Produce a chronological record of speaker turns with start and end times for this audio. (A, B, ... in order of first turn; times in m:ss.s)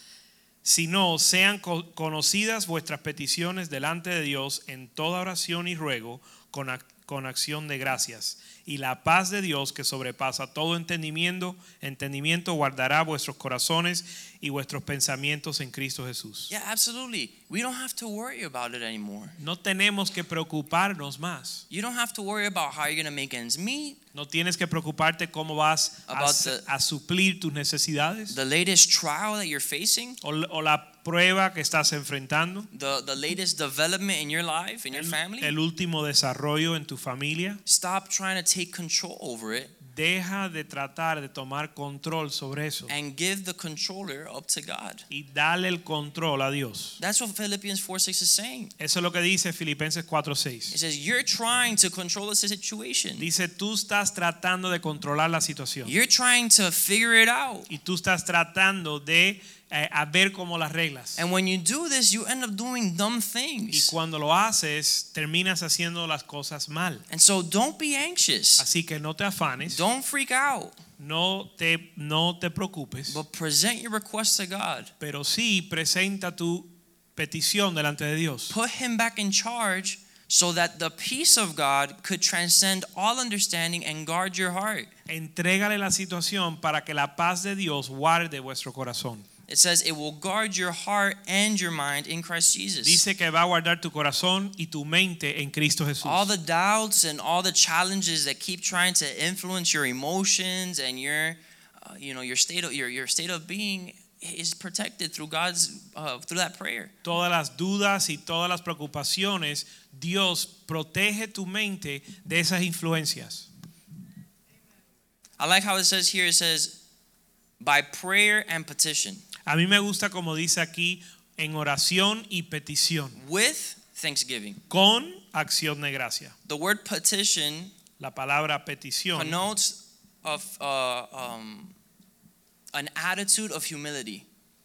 0:00.6-0:16.5 A
0:16.5-0:19.4 B
0:19.4-0:21.6 A
0:21.7-0:24.0 B
0:24.1-0:28.4 A
0:26.1-0:26.6 B
0:28.3-0:30.2 B
0:30.2-0:32.7 A
0:32.7-0:35.6 B
0:34.9-0:37.6 A
0:37.7-0:39.7 B
0:39.8-0:42.9 A
0:42.9-0:45.1 B
0:45.1-0:47.0 A
0:47.0-0:48.7 B
0:48.8-0:50.8 A
0:50.7-0:53.3 B
0:53.2-0:55.9 A
0:55.8-0:57.7 B
0:57.7-1:01.2 A
1:01.2-1:03.9 B
1:03.7-1:07.0 A
1:07.1-1:08.7 B
1:08.6-1:09.8 A
1:09.7-1:10.8 B
1:11.0-1:13.2 A
1:13.1-1:14.9 B
1:15.0-1:18.6 A
1:18.5-1:24.9 B
1:25.1-1:29.3 A
1:29.5-1:33.0 B
1:32.8-1:36.3 A
1:36.0-1:46.9 B
1:47.0-1:53.5 A
1:55.4-1:56.8 B
1:57.6-1:59.2 B
1:59.5-2:03.2 A
2:03.2-2:04.6 B
2:04.7-2:06.3 A
2:06.5-2:07.7 B
2:08.0-2:09.4 A
2:09.2-2:11.8 B
2:12.7-2:14.2 B